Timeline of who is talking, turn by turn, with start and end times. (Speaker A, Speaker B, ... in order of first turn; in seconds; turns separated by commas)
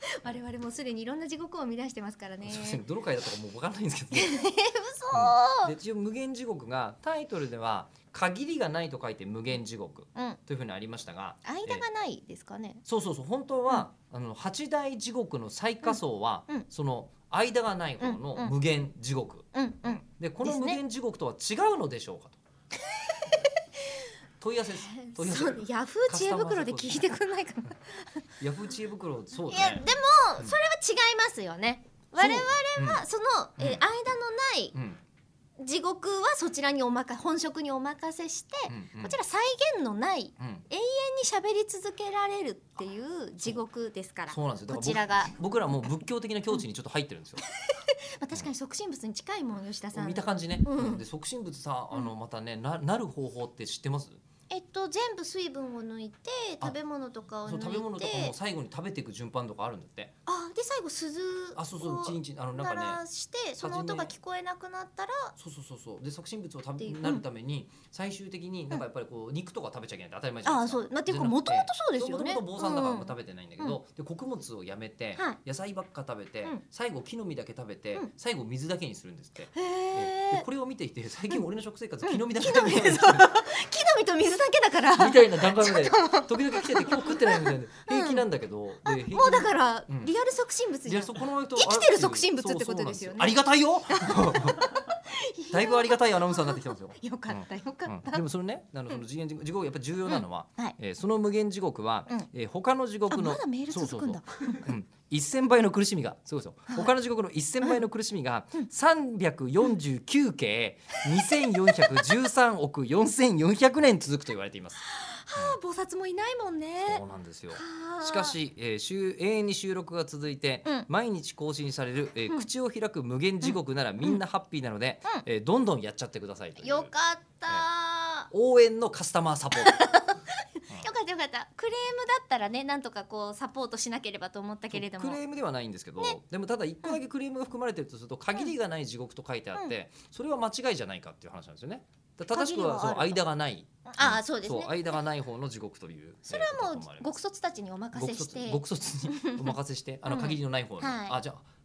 Speaker A: 0.2-2.8, Speaker B: 2.4-4.4, Speaker A: 4.1-5.7, Speaker B: 5.1-11.8, Speaker A: 11.4-12.8, Speaker B: 12.8-22.4, Speaker A: 15.8-16.6, Speaker A: 18.0-18.5, Speaker A: 19.5-20.8, Speaker A: 22.9-24.1, Speaker B: 24.4-27.1, Speaker A: 24.9-28.2, Speaker B: 28.4-29.9, Speaker A: 29.4-34.7, Speaker B: 32.2-33.0, Speaker B: 33.6-33.8, Speaker B: 34.7-35.0, Speaker A: 35.6-45.3, Speaker B: 38.7-39.2, Speaker B: 40.4-40.6, Speaker B: 44.3-47.4, Speaker A: 47.6-51.0, Speaker B: 49.9-54.2, Speaker A: 54.5-58.3, Speaker B: 57.5-60.1, Speaker A: 60.2-65.3, Speaker B: 61.5-63.0, Speaker B: 63.6-64.1, Speaker B: 65.3-83.3, Speaker A: 66.8-67.2, Speaker A: 70.4-73.8, Speaker A: 79.5-80.5, Speaker A: 82.0-88.2, Speaker B: 85.0-90.1, Speaker A: 88.8-98.2, Speaker B: 90.8-94.6, Speaker B: 95.5-114.8, Speaker A: 100.1-100.8, Speaker A: 103.1-104.7, Speaker A: 111.8-112.1, Speaker A: 114.8-118.3, Speaker B: 116.8-126.9, Speaker A: 123.4-124.2, Speaker A: 126.6-128.3, Speaker B: 128.3-129.8, Speaker A: 129.5-135.2, Speaker B: 134.7-147.1, Speaker A: 142.3-143.2, Speaker A: 143.9-144.8, Speaker A: 146.3-151.2, Speaker B: 147.9-151.4